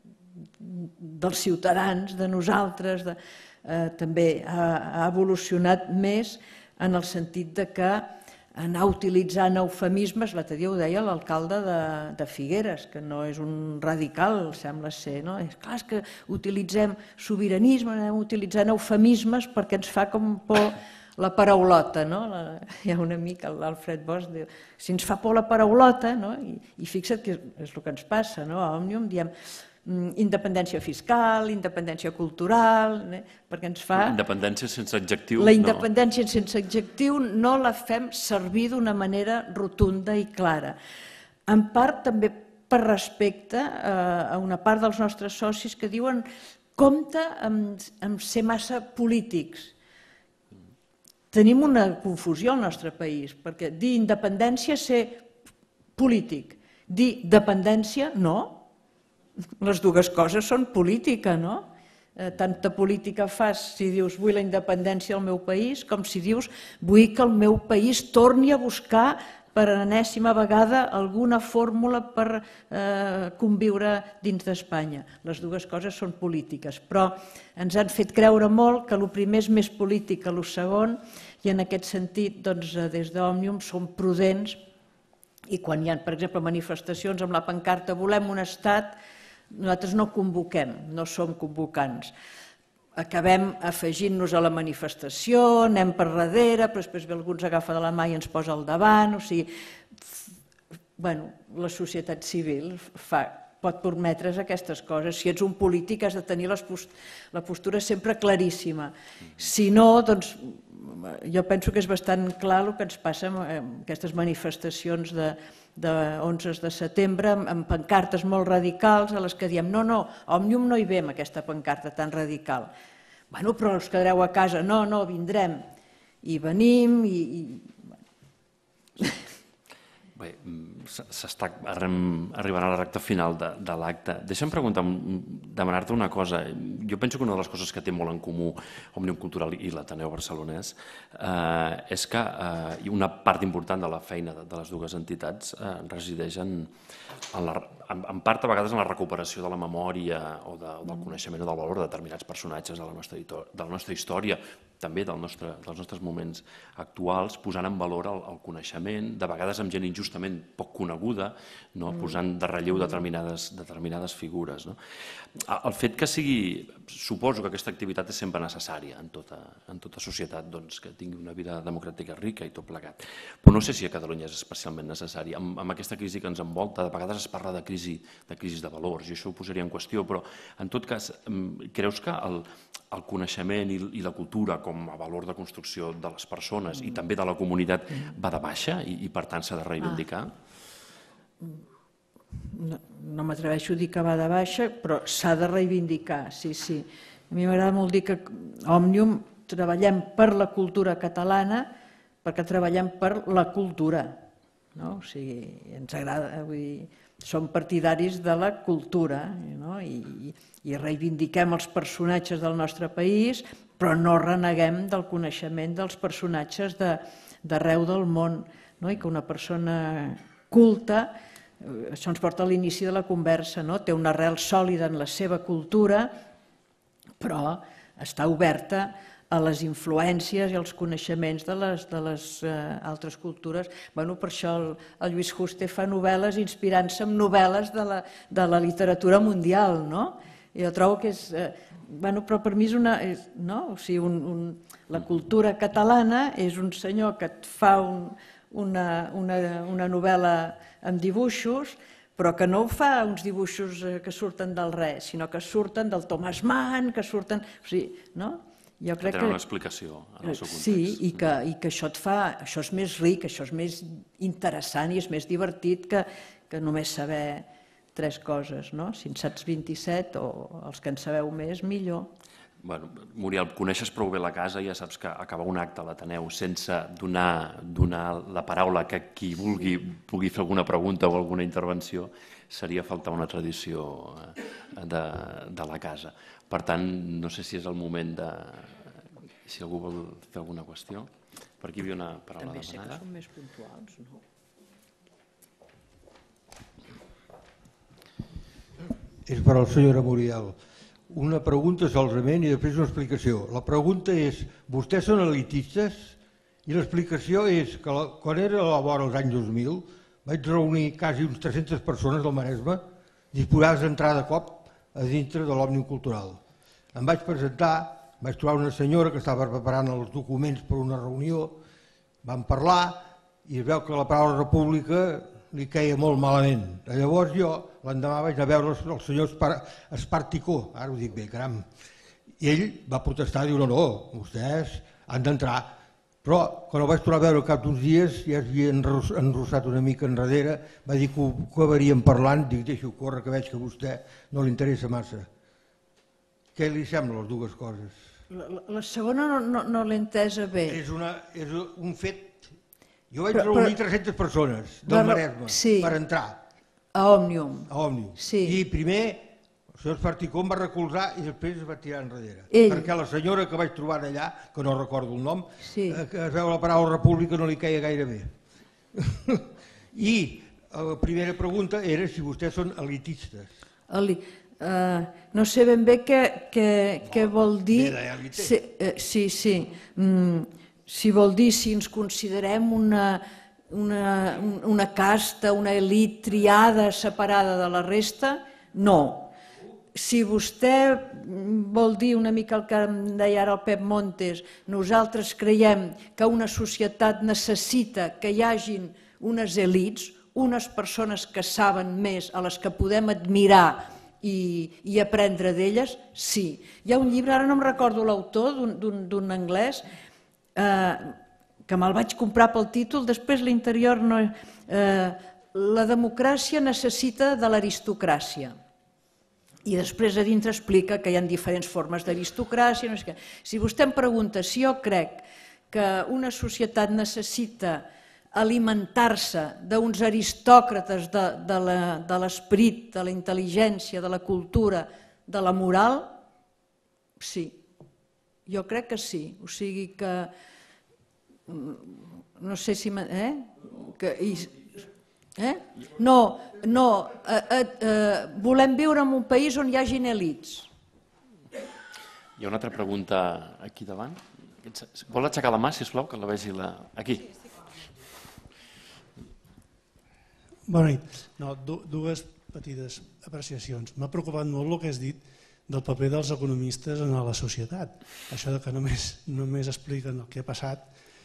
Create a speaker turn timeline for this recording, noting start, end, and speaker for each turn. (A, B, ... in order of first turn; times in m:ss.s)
0:00.6-0:29.3 A
0:29.8-0:34.2 A
0:33.9-0:35.8 B
0:35.4-0:40.8 A
0:41.5-0:49.7 A
0:51.3-0:55.2 A
0:56.0-0:58.6 A
0:59.6-1:24.6 A
1:25.5-1:29.0 A
1:29.5-1:32.1 A
1:32.9-1:40.3 A
1:41.0-2:02.7 A
2:03.3-2:05.6 A
2:06.2-2:07.8 A
2:09.0-2:09.2 A
2:10.2-2:26.7 B
2:27.3-2:44.8 B
2:45.3-3:10.3 B
3:12.4-3:21.7 A
3:22.2-3:24.2 A
3:24.7-3:46.1 A
3:47.2-4:19.4 A
4:19.0-4:21.2 B
4:20.2-4:32.1 A
4:32.6-4:53.0 B
4:52.4-4:54.2 A
4:59.2-5:00.6 C
5:01.1-5:16.4 C
5:16.9-5:21.6 C
5:22.2-5:31.7 C
5:32.4-5:35.7 C
5:36.2-5:45.3 C
5:46.5-5:48.0 C
5:48.3-5:50.8 A
5:50.7-5:52.5 C
5:53.1-5:56.4 C
5:53.3-5:53.8 A
5:54.8-5:55.9 A
5:56.9-5:58.6 A
5:57.7-6:08.3 C
6:02.5-6:02.9 A
6:05.6-6:06.0 A
6:08.9-6:13.5 C
6:13.9-6:29.3 A
6:17.1-6:18.5 C
6:29.9-6:49.8 A
6:50.5-6:51.2 A
6:51.7-6:58.5 A
6:59.6-7:16.1 A
7:17.2-7:17.6 A
7:18.4-7:20.3 A
7:21.5-7:30.7 A
7:32.4-7:37.4 B
7:40.7-7:50.8 D